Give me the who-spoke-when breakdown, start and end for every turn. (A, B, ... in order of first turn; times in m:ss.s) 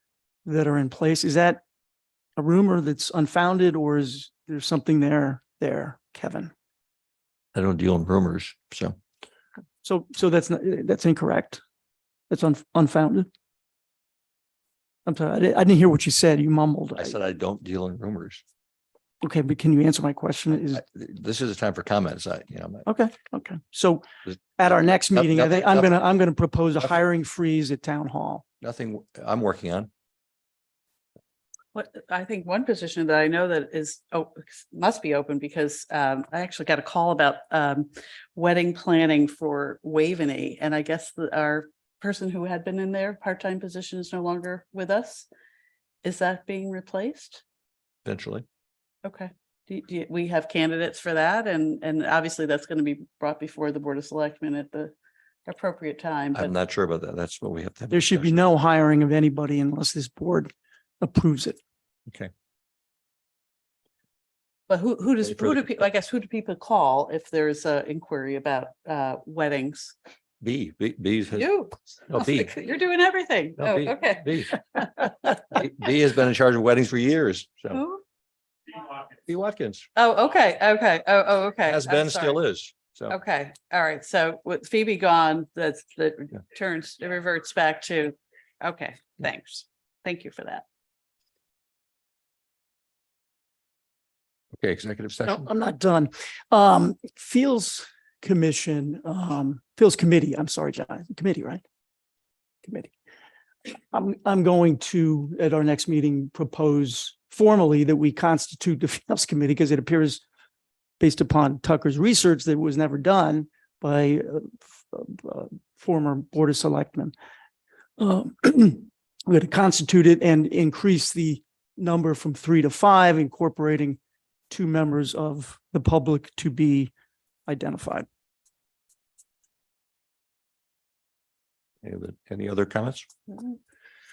0:00.4-0:01.6 A
0:02.4-0:06.5 A
0:07.5-0:09.0 B
0:09.8-0:11.6 A
0:12.3-0:13.3 A
0:15.0-0:17.2 A
0:17.0-0:18.4 B
0:19.2-0:20.8 A
0:20.7-0:22.9 B
0:22.8-0:28.4 A
0:25.1-0:25.9 B
0:28.6-0:29.9 B
0:31.7-0:45.3 C
0:46.0-0:47.4 C
0:48.0-0:48.4 B
0:49.0-0:54.9 C
0:55.4-0:56.5 C
0:56.3-0:58.4 B
0:57.9-1:01.6 A
1:04.7-1:09.9 C
1:10.4-1:11.5 B
1:11.3-1:15.0 C
1:12.1-1:12.5 B
1:13.6-1:17.8 B
1:17.7-1:18.0 C
1:19.2-1:19.8 B
1:20.0-1:22.4 C
1:21.6-1:23.1 B
1:23.1-1:30.6 C
1:34.6-1:35.5 B
1:35.2-1:41.6 A
1:42.6-1:42.9 A
1:43.9-1:50.2 A
1:51.0-1:57.1 A
1:58.0-2:04.0 A
2:04.5-2:06.9 A
2:07.5-2:08.0 A
2:11.8-2:13.1 B